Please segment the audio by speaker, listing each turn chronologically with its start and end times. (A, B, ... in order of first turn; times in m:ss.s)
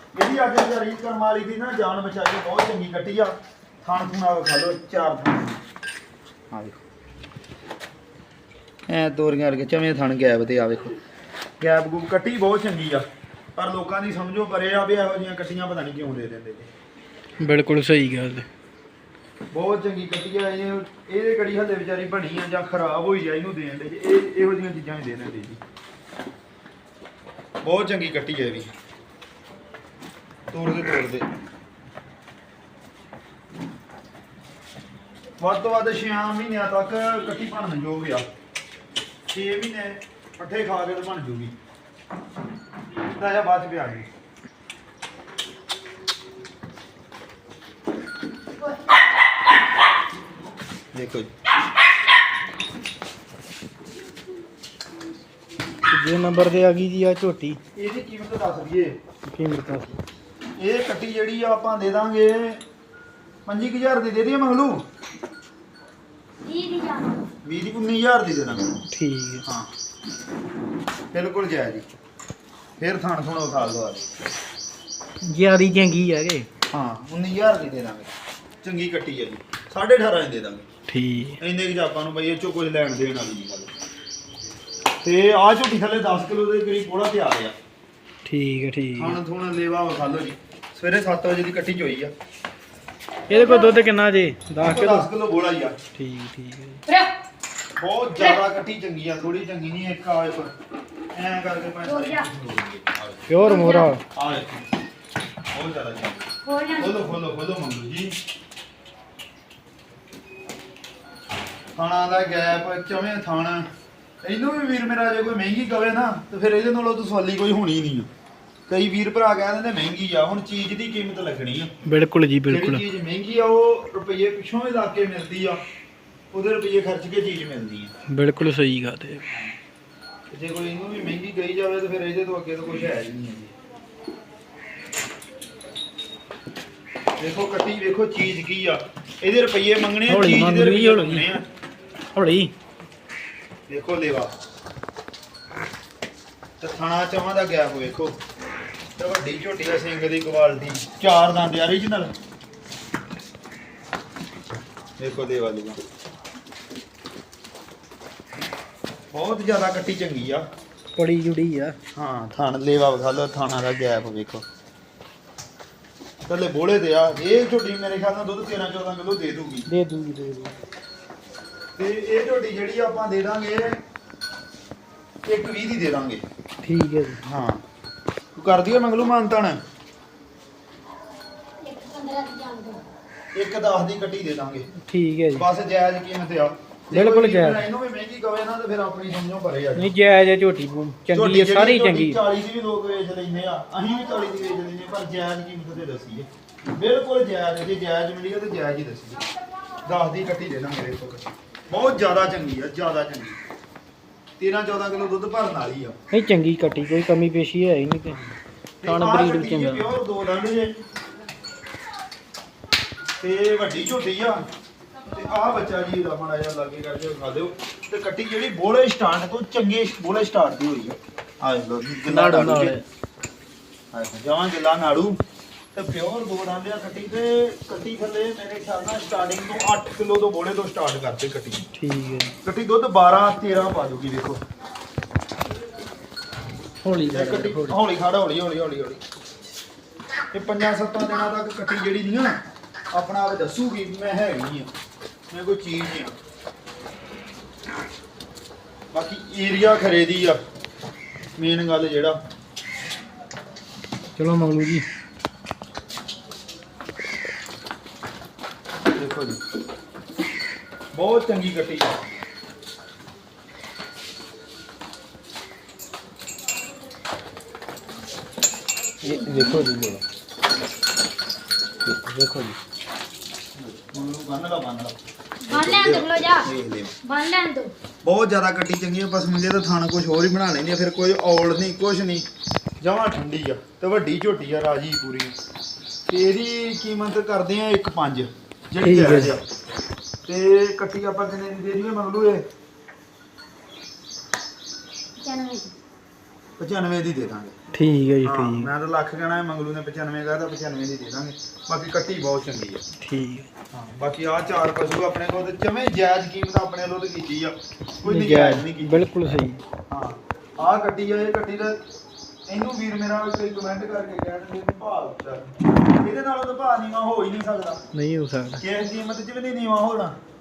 0:00.2-0:05.6 A
0:06.5-0:06.8 A
0:08.9-0:11.0 A
0:11.6-0:13.0 A
0:13.6-0:16.7 A
0:17.4-0:18.5 B
0:19.5-0:25.6 A
0:27.6-0:28.7 A
0:30.5-0:31.3 A
0:35.4-0:38.3 A
0:39.3-0:41.6 A
0:43.0-0:44.1 A
0:50.9-0:51.3 A
0:55.9-0:57.6 B
0:57.8-0:59.0 A
0:59.3-1:00.0 B
1:00.6-1:02.6 A
1:03.5-1:04.8 A
1:06.4-1:07.2 C
1:07.4-1:08.8 A
1:08.9-1:09.5 B
1:09.4-1:09.7 A
1:11.1-1:11.9 A
1:12.8-1:14.1 A
1:15.2-1:16.5 B
1:16.7-1:18.1 A
1:18.6-1:20.7 A
1:20.9-1:21.4 B
1:21.4-1:23.7 A
1:25.0-1:27.6 A
1:28.2-1:29.2 B
1:29.0-1:32.1 A
1:33.3-1:33.8 C
1:33.3-1:35.1 B
1:34.6-1:35.8 A
1:35.9-1:36.8 B
1:36.9-1:37.1 C
1:37.8-1:40.5 A
1:41.2-1:43.4 A
1:41.8-1:42.3 C
1:43.3-1:44.0 B
1:43.4-1:43.9 C
1:44.1-1:44.6 A
1:45.5-1:48.2 A
1:46.4-1:47.1 C
1:51.8-1:53.7 A
1:54.2-1:58.1 A
1:58.7-2:01.8 A
2:01.8-2:02.8 B
2:02.5-2:05.6 A
2:06.3-2:07.9 A
2:08.1-2:09.2 B
2:10.3-2:13.5 A
2:17.2-2:21.5 A
2:20.1-2:21.3 B
2:22.2-2:22.5 B
2:23.7-2:24.3 A
2:26.6-2:28.2 A
2:29.0-2:32.1 A
2:35.0-2:35.8 A
2:39.1-2:40.5 A
2:41.0-2:41.8 B
2:42.0-2:44.4 A
2:46.3-2:49.7 A
2:49.7-2:50.6 B
2:51.8-2:53.8 A
2:55.3-2:56.2 A
2:56.6-2:57.2 B
2:57.2-2:57.6 A
2:58.4-2:59.6 A
3:01.6-3:02.8 C
3:03.3-3:04.7 A
3:04.9-3:05.5 B
3:05.3-3:09.9 A
3:06.9-3:07.6 B
3:09.8-3:12.2 B
3:11.1-3:19.2 A
3:19.8-3:23.4 A
3:24.4-3:26.0 A
3:26.1-3:28.2 B
3:28.8-3:30.8 A
3:28.8-3:29.9 B
3:33.2-3:34.4 A
3:35.1-3:42.8 A
3:42.0-3:42.8 B
3:43.9-3:45.2 A
3:45.7-3:51.7 A
3:51.7-3:52.4 B
3:52.4-3:54.4 A
3:56.8-3:57.8 B
3:57.1-3:59.0 A
4:00.3-4:02.4 A
4:02.9-4:04.7 A
4:05.3-4:06.2 A
4:08.9-4:10.4 A
4:11.4-4:12.2 A
4:14.2-4:14.8 B
4:19.0-4:19.4 A
4:20.9-4:22.0 A
4:29.0-4:30.0 B
4:31.9-4:32.6 B
4:33.6-4:35.0 A
4:35.4-4:36.5 C
4:35.5-4:37.0 A
4:37.0-4:37.7 C
4:38.0-4:42.3 A
4:42.8-4:45.4 A
4:46.1-4:49.4 A
4:48.8-4:49.4 B
4:50.3-4:52.4 A
4:55.2-4:55.8 C
4:56.6-4:57.6 A
4:57.7-4:58.7 B
4:58.2-5:02.8 A
5:03.0-5:03.5 B
5:03.7-5:09.0 A
5:08.0-5:09.6 B
5:09.9-5:11.8 A
5:12.5-5:17.8 A
5:17.9-5:18.6 B
5:18.6-5:20.2 A